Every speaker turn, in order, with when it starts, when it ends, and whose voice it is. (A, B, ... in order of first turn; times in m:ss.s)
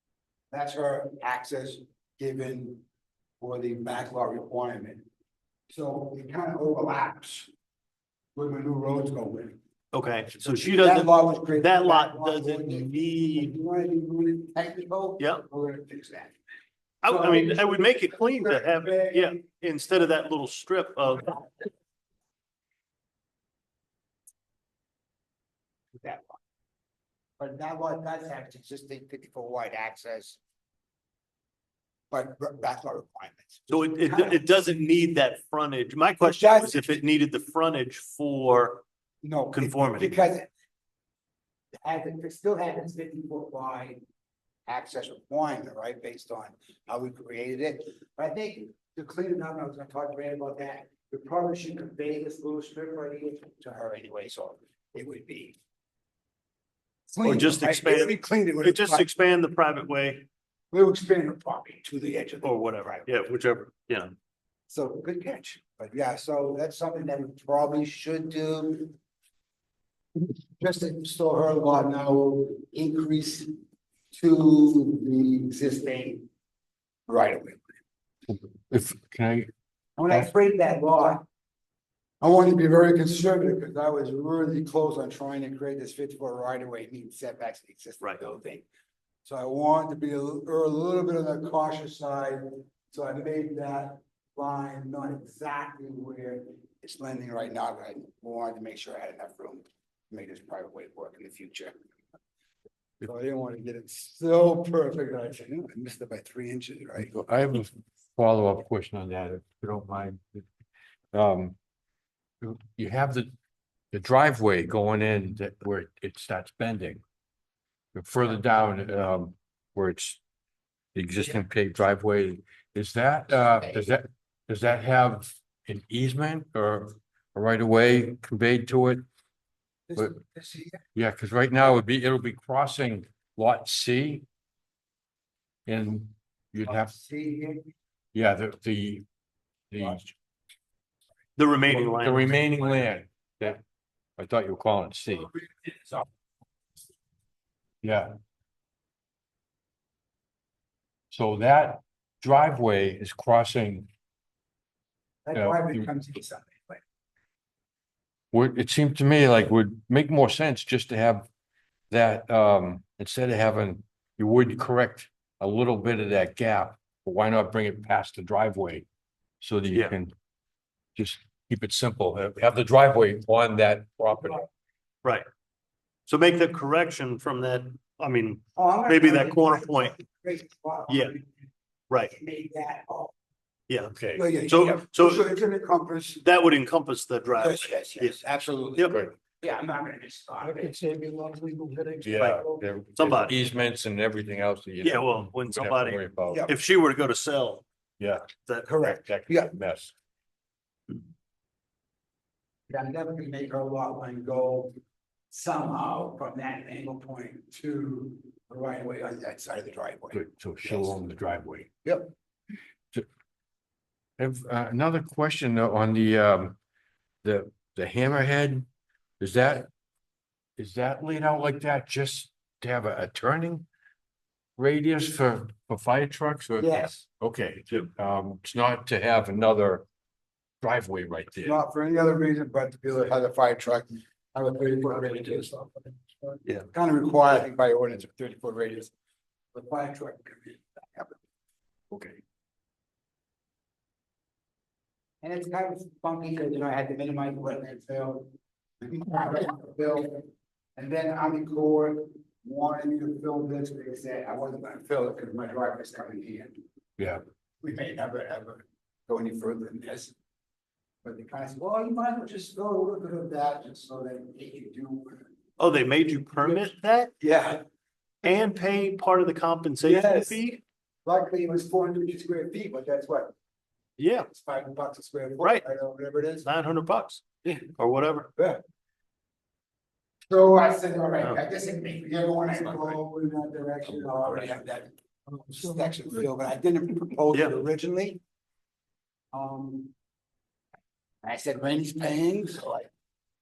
0:00.5-0:02.8 A
0:03.4-0:05.0 A
0:05.7-0:07.5 A
0:08.4-0:09.6 A
0:09.9-0:13.5 B
0:10.4-0:16.4 A
0:17.0-0:21.4 B
0:17.1-0:19.4 A
0:26.0-0:26.4 A
0:27.4-0:30.4 A
0:32.1-0:34.4 A
0:33.7-0:38.8 B
0:36.2-0:37.0 A
0:39.2-0:40.5 A
0:39.6-0:40.2 B
0:41.8-0:44.0 A
0:44.7-0:55.6 A
0:57.1-0:59.1 A
0:57.2-1:00.2 B
1:00.7-1:03.1 A
1:02.4-1:04.1 B
1:04.7-1:08.9 A
1:10.6-1:13.5 A
1:14.1-1:16.3 A
1:17.1-1:17.7 A
1:18.3-1:19.5 C
1:20.0-1:21.2 A
1:22.2-1:28.6 A
1:29.2-1:41.8 A
1:43.0-1:47.1 A
1:47.0-1:50.5 C
1:51.1-1:51.6 C
1:52.4-1:53.3 C
1:53.9-1:57.0 C
1:58.0-2:00.2 C
2:01.0-2:09.0 C
2:09.9-2:10.8 A
2:11.0-2:14.2 C
2:15.7-2:17.0 C
2:16.7-2:17.7 A
2:18.1-2:19.1 C
2:19.7-2:20.1 C
2:21.4-2:22.4 B
2:21.7-2:23.6 C
2:24.2-2:25.3 C
2:25.6-2:26.0 A
2:27.8-2:28.1 C
2:31.1-2:33.9 C
2:35.2-2:36.8 A
2:35.4-2:35.9 C
2:38.3-2:41.3 C
2:41.9-2:48.9 C
2:49.4-2:50.1 C
2:51.0-2:54.4 C
2:56.1-3:00.0 B
2:58.6-3:01.3 A
3:00.9-3:01.1 B
3:02.0-3:03.1 A
3:03.7-3:05.3 B
3:03.9-3:04.2 C
3:04.1-3:06.2 A
3:06.2-3:08.2 B
3:07.4-3:10.8 A
3:08.8-3:09.1 C
3:10.5-3:12.5 D
3:12.0-3:16.5 C
3:13.0-3:13.4 B
3:14.8-3:17.6 B
3:18.0-3:18.3 C
3:18.3-3:18.7 B
3:18.6-3:19.5 A
3:18.8-3:19.9 C
3:22.7-3:24.7 A
3:25.3-3:31.0 A
3:30.1-3:31.7 C
3:31.8-3:32.1 A
3:34.2-3:36.6 C
3:37.2-3:38.7 C
3:39.2-3:39.7 C
3:40.6-3:43.7 C
3:44.6-3:49.8 C
3:46.6-3:47.0 A
3:50.6-3:51.6 C
3:51.4-3:58.9 A
3:59.5-4:01.2 A
4:01.9-4:02.2 B
4:05.2-4:08.3 A
4:08.8-4:16.6 A
4:17.6-4:20.1 A
4:21.0-4:25.3 A
4:25.6-4:27.1 B
4:27.2-4:27.6 A
4:28.2-4:30.6 B
4:29.8-4:30.4 A
4:31.0-4:33.3 A
4:34.0-4:34.3 B
4:34.3-4:36.5 A
4:36.4-4:37.2 B
4:37.4-4:37.7 A
4:37.8-4:38.3 B
4:38.4-4:38.6 A
4:40.3-4:48.2 A
4:49.3-4:49.9 A
4:51.2-4:52.9 A